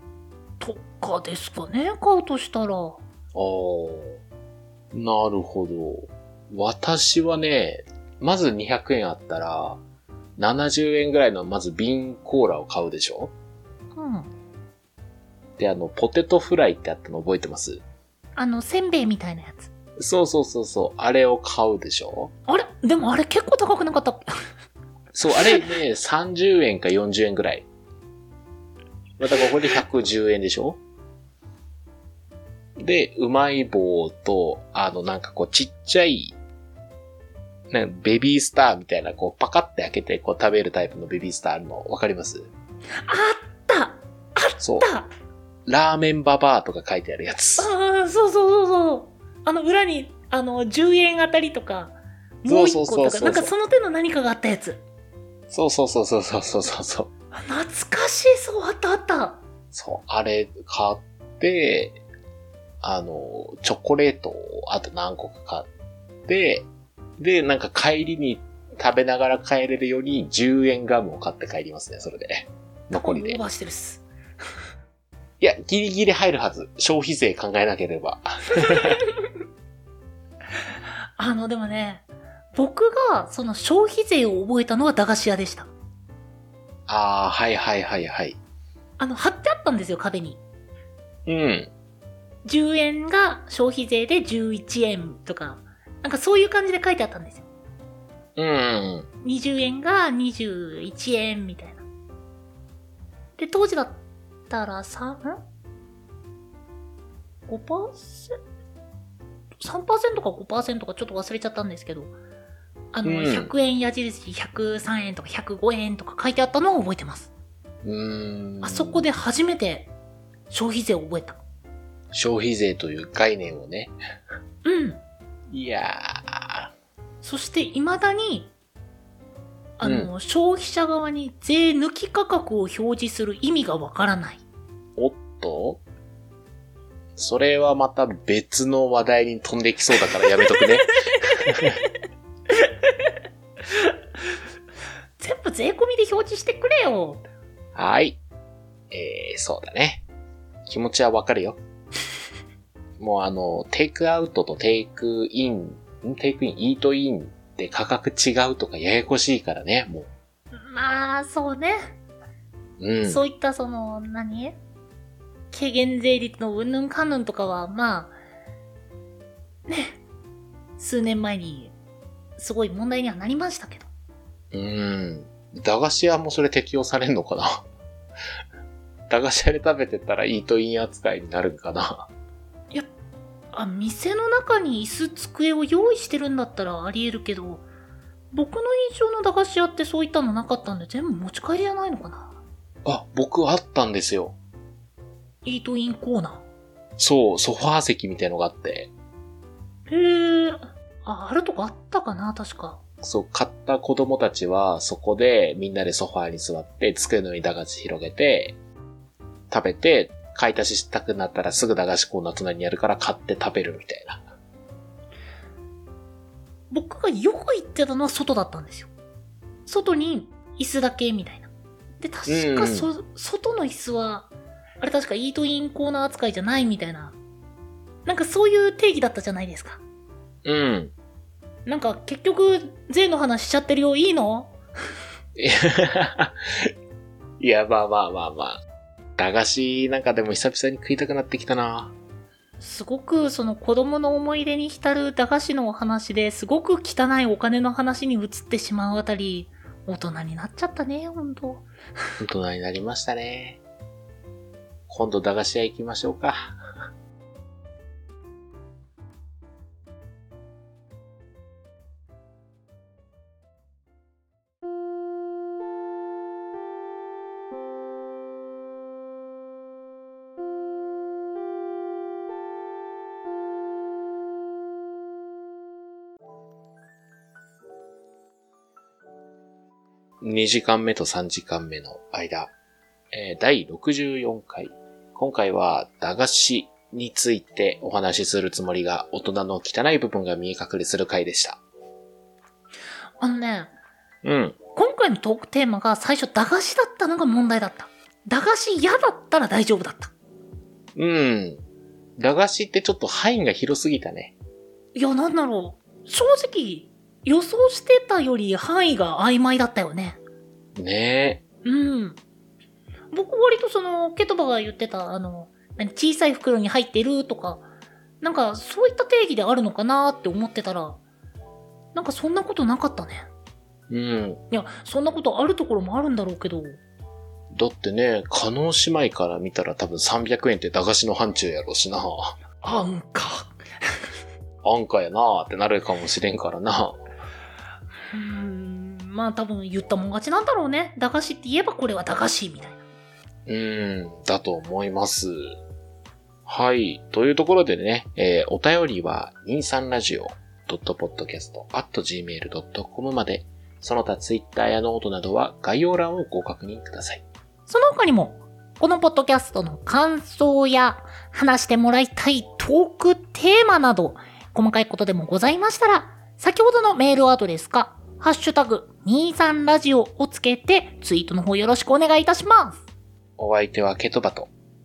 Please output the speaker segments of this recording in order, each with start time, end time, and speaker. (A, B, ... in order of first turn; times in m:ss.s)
0:00.6-0:03.0 A
0:03.3-0:04.2 B
0:04.9-0:09.8 B
0:10.4-0:13.3 B
0:14.0-0:14.3 A
0:15.6-0:17.8 B
0:18.4-0:19.7 A
0:20.0-0:22.3 B
0:22.5-0:24.4 A
0:25.1-0:27.7 B
0:29.2-0:30.8 B
0:32.8-0:36.4 B
0:37.7-0:42.5 B
0:43.0-0:45.1 A
0:44.6-0:44.9 B
0:45.7-0:47.7 B
0:47.6-0:54.8 A
0:52.5-0:53.5 B
0:55.5-0:57.1 B
0:57.3-0:59.4 A
0:59.7-1:02.0 B
1:02.8-1:05.7 B
1:06.3-1:06.7 B
1:07.2-1:13.4 B
1:12.9-1:14.0 A
1:15.4-1:19.0 B
1:21.2-1:25.7 A
1:26.9-1:28.4 B
1:29.0-1:30.4 A
1:31.3-1:31.7 B
1:32.4-1:37.4 A
1:38.4-1:39.1 B
1:39.2-1:41.8 A
1:43.4-1:45.4 A
1:47.5-1:48.4 A
1:49.6-1:52.1 A
1:52.9-1:57.3 A
1:53.0-1:53.5 B
1:57.8-1:59.1 B
1:58.6-1:59.9 A
2:00.5-2:01.4 A
2:02.1-2:03.9 B
2:04.6-2:05.0 A
2:05.5-2:06.7 B
2:07.2-2:08.5 A
2:09.8-2:14.4 A
2:09.8-2:10.1 B
2:15.0-2:15.8 B
2:17.2-2:21.8 B
2:20.6-2:20.9 A
2:22.7-2:22.9 A
2:25.2-2:27.2 A
2:27.8-2:28.2 B
2:28.9-2:30.0 B
2:30.7-2:31.6 B
2:33.0-2:40.1 B
2:40.5-2:42.0 A
2:42.8-2:43.2 B
2:43.0-2:44.6 A
2:45.5-2:48.2 A
2:49.7-2:50.0 A
2:50.8-2:51.8 A
2:52.4-2:53.9 A
2:54.5-2:57.6 B
2:59.1-3:02.1 B
3:03.5-3:07.6 A
3:08.3-3:12.4 A
3:12.8-3:14.4 B
3:15.4-3:16.4 A
3:17.0-3:18.9 B
3:19.9-3:22.8 A
3:23.0-3:28.6 B
3:29.5-3:34.2 B
3:36.7-3:38.9 A
3:39.7-3:41.5 A
3:42.0-3:44.3 A
3:42.3-3:42.9 B
3:44.8-3:47.2 A
3:48.1-3:49.8 A
3:50.4-3:50.9 B
3:51.7-3:54.5 A
3:55.4-3:56.7 B
3:57.4-3:58.6 B
3:59.2-4:01.9 B
4:02.6-4:11.6 A
4:12.2-4:13.6 B
4:14.9-4:16.6 B
4:40.2-4:42.5 B
4:43.1-4:51.6 B
4:53.2-4:53.7 A
4:54.2-4:54.6 B
4:54.8-5:00.1 A
5:01.0-5:01.6 B
5:02.2-5:04.4 B
5:05.0-5:10.2 A
5:10.8-5:11.4 B
5:11.6-5:12.2 A
5:13.1-5:17.6 A
5:18.2-5:21.0 A
5:22.0-5:23.3 A
5:23.9-5:24.4 B
5:24.5-5:26.8 A
5:27.5-5:32.4 B
5:32.6-5:33.5 A
5:34.6-5:37.0 B
5:38.1-5:42.8 A
5:43.5-5:45.4 B
5:46.5-5:57.2 B
5:57.7-6:12.8 A
6:13.4-6:14.5 B